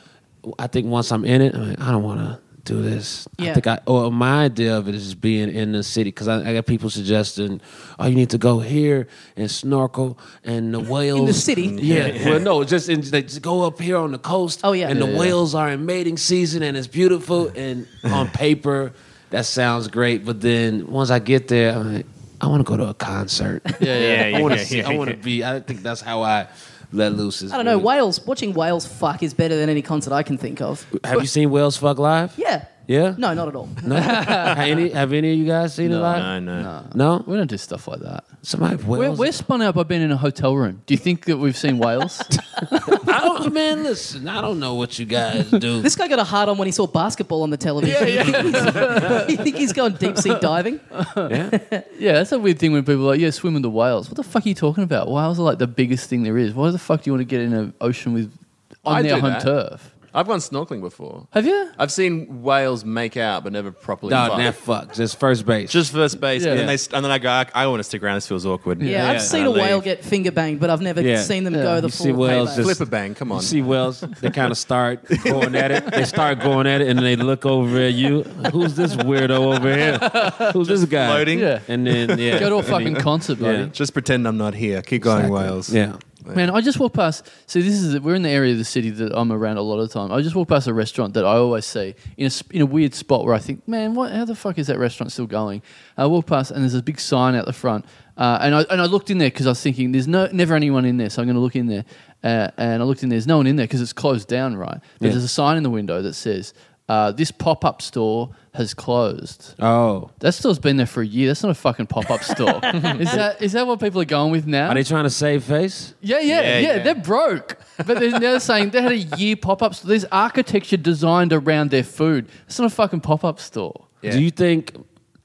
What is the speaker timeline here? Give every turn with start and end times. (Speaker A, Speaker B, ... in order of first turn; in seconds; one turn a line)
Speaker A: 0.4-27.9
Speaker B: 3.4-3.6
Speaker B: 11.1-12.1
Speaker C: 11.6-12.5
Speaker B: 14.6-15.0
Speaker D: 14.9-15.4
Speaker D: 23.8-24.6
Speaker C: 23.9-25.2
Speaker B: 27.5-30.9
Speaker A: 30.9-36.4
Speaker B: 32.4-33.9
Speaker D: 34.0-34.7
Speaker D: 35.8-38.3
Speaker C: 36.1-36.7
Speaker A: 36.9-37.3
Speaker A: 38.4-39.3
Speaker D: 38.9-43.0
Speaker A: 42.8-45.9
Speaker B: 45.8-50.8
Speaker D: 47.8-51.3
Speaker A: 51.3-51.6
Speaker B: 51.5-51.9
Speaker D: 51.9-59.9
Speaker C: 58.9-59.5
Speaker C: 60.1-64.5
Speaker D: 61.3-61.7
Speaker A: 64.1-65.9
Speaker C: 65.7-69.9
Speaker D: 66.4-66.7
Speaker A: 66.5-66.8
Speaker D: 68.8-69.1
Speaker B: 68.9-72.7
Speaker A: 69.0-69.3
Speaker A: 71.0-83.7
Speaker D: 71.5-71.8
Speaker C: 72.5-73.6
Speaker C: 75.1-76.3
Speaker D: 79.8-80.5
Speaker C: 80.5-86.5
Speaker D: 81.3-81.7
Speaker D: 82.2-83.7
Speaker A: 85.1-86.0
Speaker D: 86.3-109.6
Speaker A: 109.6-110.1
Speaker D: 110.2-114.8
Speaker C: 112.7-113.1
Speaker A: 114.7-115.9
Speaker D: 116.0-123.9
Speaker C: 116.3-117.0
Speaker A: 124.1-124.8